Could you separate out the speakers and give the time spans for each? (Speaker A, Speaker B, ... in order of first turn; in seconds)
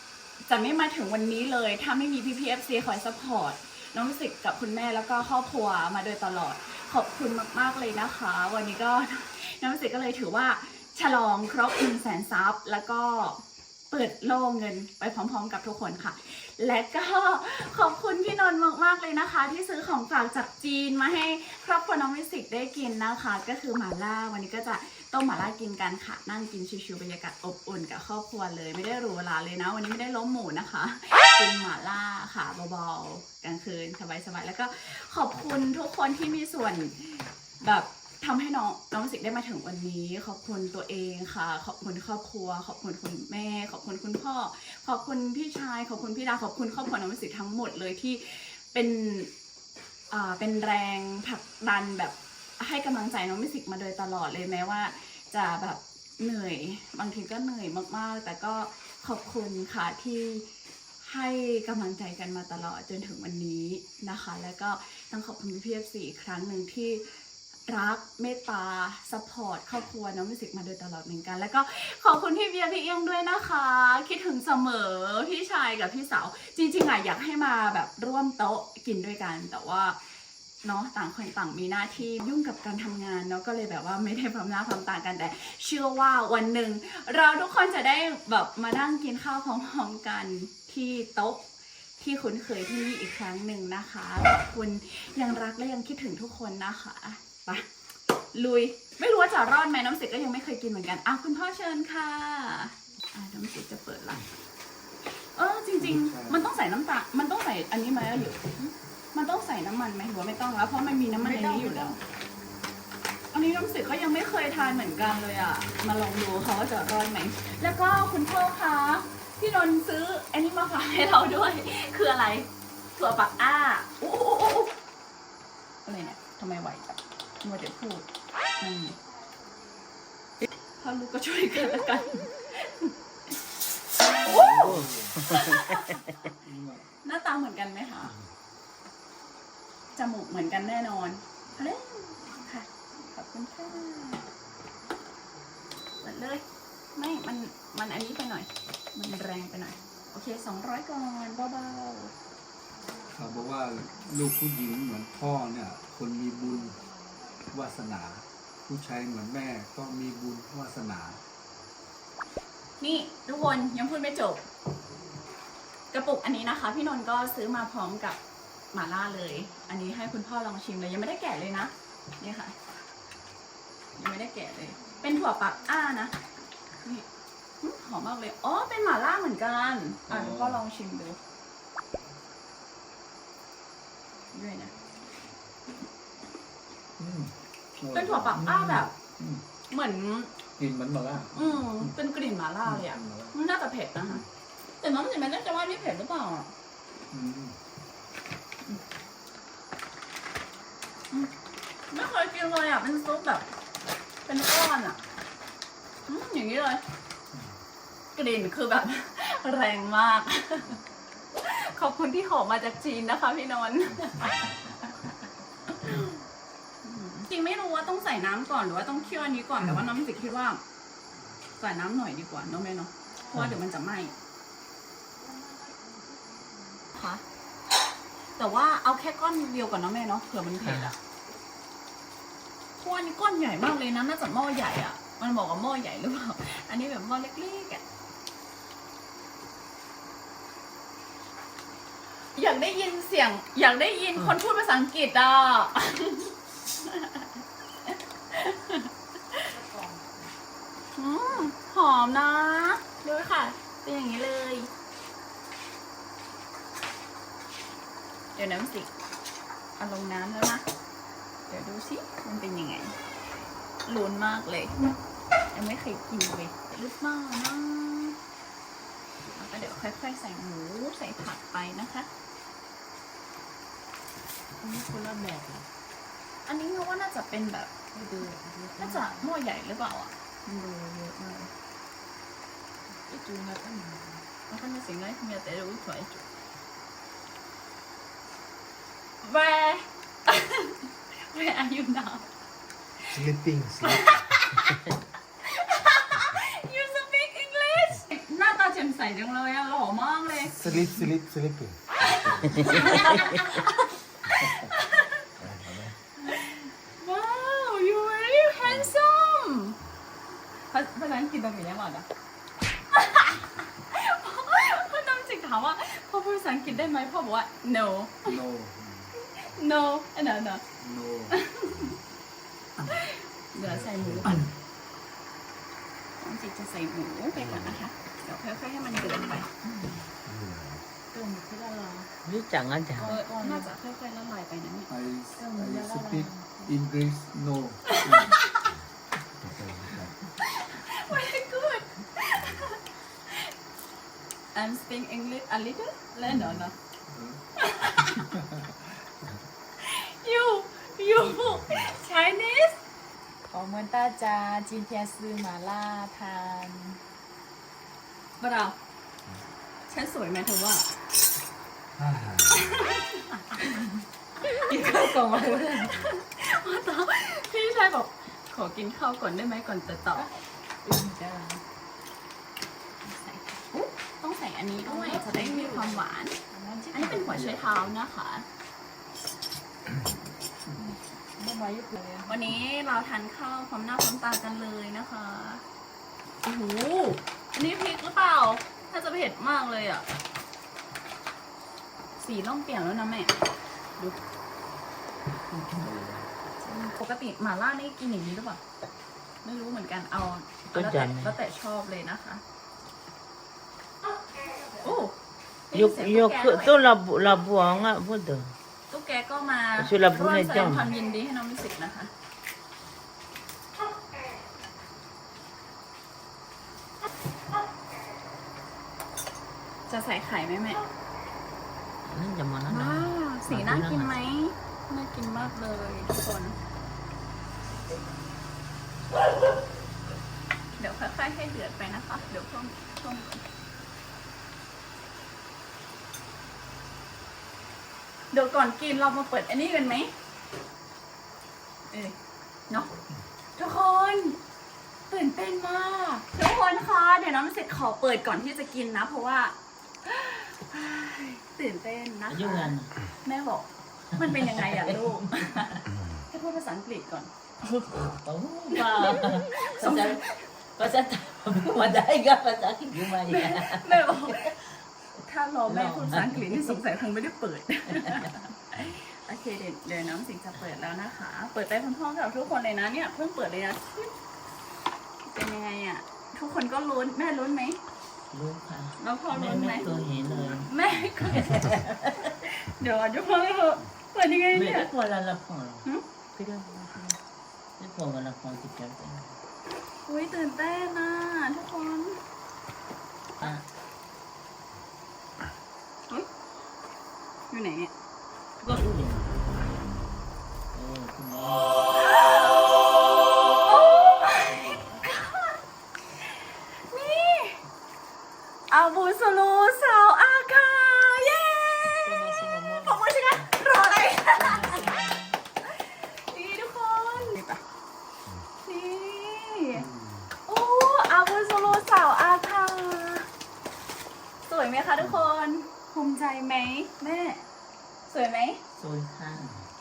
Speaker A: 0.5-49.3, 50.1-60.5, 61.0-67.1, 67.7-80.0, 80.6-91.4, 92.0-97.6, 98.3-104.3, 105.3-112.0, 113.3-124.7, 125.8-128.1, 128.6-129.0, 130.8-133.3, 134.3-134.6, 135.6-136.0, 137.0-138.1, 139.9-144.2, 146.0-146.4, 146.9-152.1, 162.8-164.4, 165.9-168.2, 168.7-172.5, 173.9-176.2, 177.6-181.2, 184.3-184.7, 187.9-188.9, 189.7-190.3, 191.3-194.2, 194.8-196.5, 201.9-203.5, 204.2-205.0, 206.1-206.8, 208.1-210.8, 211.4-215.1, 215.7-216.2, 216.8-220.6, 221.6-224.1, 226.9-227.2, 228.4-230.9, 232.8-237.8, 242.3-247.3, 247.9-249.4, 250.9-254.7, 258.4-258.9, 259.8-260.6, 261.5-262.9, 263.9-264.8, 265.5-268.2, 269.3-272.1, 276.4-277.7, 278.8-281.5, 284.5-286.2, 289.2-292.3, 293.8-294.8, 295.4-300.8, 302.0-305.3, 306.2-309.8, 310.7-312.1, 312.9-318.4, 319.3-320.6, 321.3-322.0, 322.8-324.4, 326.2-329.5, 333.0-334.9, 337.9-338.7, 340.4-342.8, 344.5-346.8, 347.6-348.3, 349.8-352.8, 358.4-358.8, 359.9-360.9, 362.5-363.7, 364.9-365.1, 365.7-370.3, 373.7-376.4, 376.9-378.4, 382.3-385.6, 386.4-390.0, 392.2-393.4, 396.6-398.6, 399.4-402.4, 404.8-405.1, 405.7-406.7, 408.9-412.1, 419.9-420.8, 422.7-426.6, 430.8-433.4, 438.3-440.1, 441.9-442.2, 443.6-444.4, 445.1-457.3, 458.7-460.2, 463.2-464.5, 465.2-474.1, 475.3-477.8, 479.0-484.9, 490.1-492.2, 497.5-497.9, 502.1-502.4, 503.6-505.6, 506.1-507.6, 508.7-512.1, 512.8-514.9, 515.7-517.6, 518.6-519.9, 520.5-523.3, 524.5-527.4, 528.1-528.6
Speaker B: 105.8-106.4, 134.3-135.7, 136.3-136.8, 153.1-156.8, 157.5-161.2, 180.1-180.6, 187.0-189.4, 190.6-191.9, 192.6-193.3, 197.1-197.6, 318.2-319.1, 320.8-321.4, 334.9-338.4, 347.1-347.4, 348.0-349.3, 351.4-351.9, 519.8-520.3
Speaker C: 111.1-112.0, 249.5-250.3, 274.6-275.7, 277.9-279.3, 283.1-284.2, 329.6-330.1, 331.1-332.1, 332.9-333.8, 335.4-336.7, 353.5-357.0, 364.7-365.9, 370.1-371.6, 374.8-377.6, 380.7-382.4, 512.0-513.0, 514.4-515.4
Speaker D: 134.6-135.9, 230.6-230.9, 302.6-303.4, 332.2-333.1, 364.8-365.8, 400.7-401.4, 405.7-408.5, 409.8-410.9, 422.0-424.3, 452.3-452.9, 454.2-455.8, 457.9-464.5, 465.7-466.8, 467.9-468.3, 478.3-480.7, 481.2-482.1, 484.5-487.2, 487.8-489.4, 498.6-499.5, 500.7-501.9, 528.7-529.6
Speaker E: 293.1-294.2, 300.5-302.7, 305.4-305.9, 330.2-330.8, 339.4-340.1, 362.0-362.8, 395.8-396.1